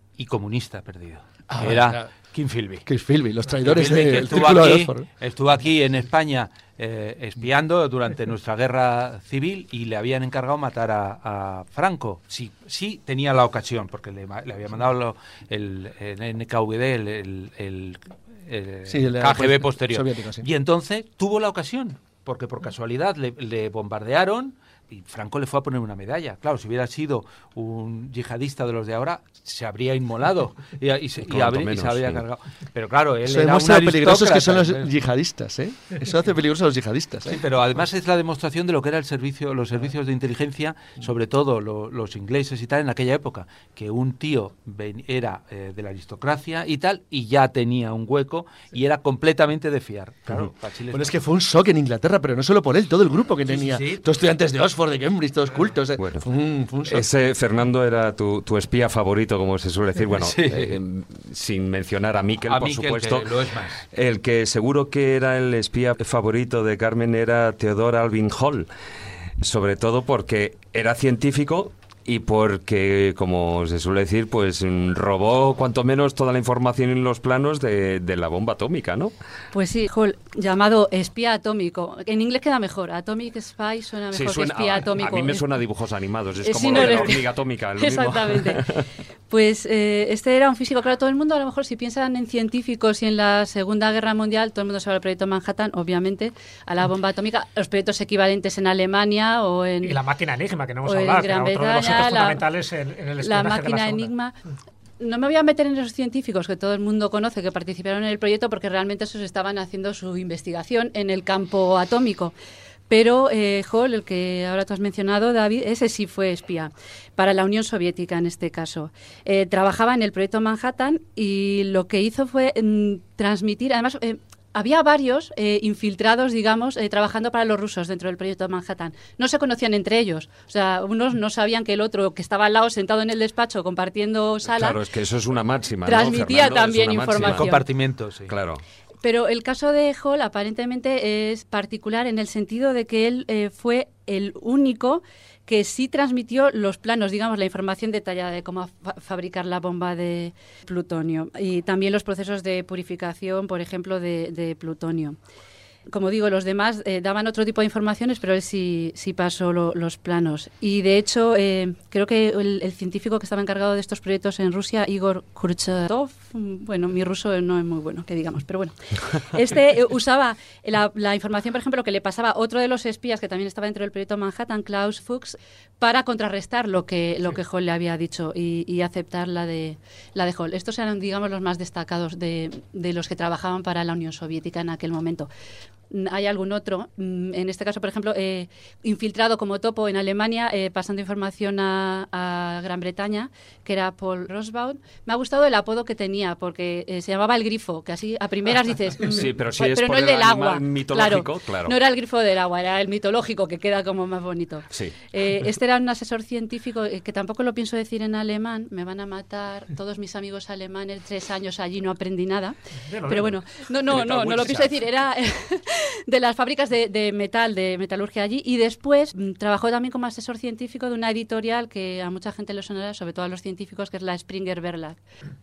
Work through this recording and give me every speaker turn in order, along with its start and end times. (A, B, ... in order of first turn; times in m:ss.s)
0:00.2-0:02.9 A
0:01.5-0:02.1 B
0:02.9-0:05.1 B
0:03.6-0:34.9 A
0:18.9-0:20.5 B
0:31.2-0:32.2 C
0:33.3-0:37.4 B
0:37.3-0:51.1 A
0:50.9-0:57.1 B
0:53.5-0:54.0 A
0:56.0-0:56.2 C
0:56.9-1:03.3 C
1:00.1-1:00.8 A
1:02.5-1:03.8 A
1:03.9-1:08.7 C
1:09.4-1:19.1 C
1:19.5-1:25.5 D
1:24.1-1:28.8 C
1:26.4-1:28.7 D
1:29.3-1:40.0 D
1:39.8-1:44.1 E
1:40.8-1:42.4 D
1:43.2-1:44.4 D
1:45.0-1:52.3 D
1:52.9-2:14.8 D
2:14.5-2:17.5 C
2:15.8-2:17.6 D
2:17.2-2:18.3 A
2:18.3-2:18.6 C
2:19.0-2:35.2 D
2:35.9-3:05.3 D
3:05.9-3:32.6 D
3:19.0-3:21.8 C
3:32.9-3:33.4 E
3:33.1-3:45.0 D
3:33.9-3:34.8 C
3:34.0-3:34.6 E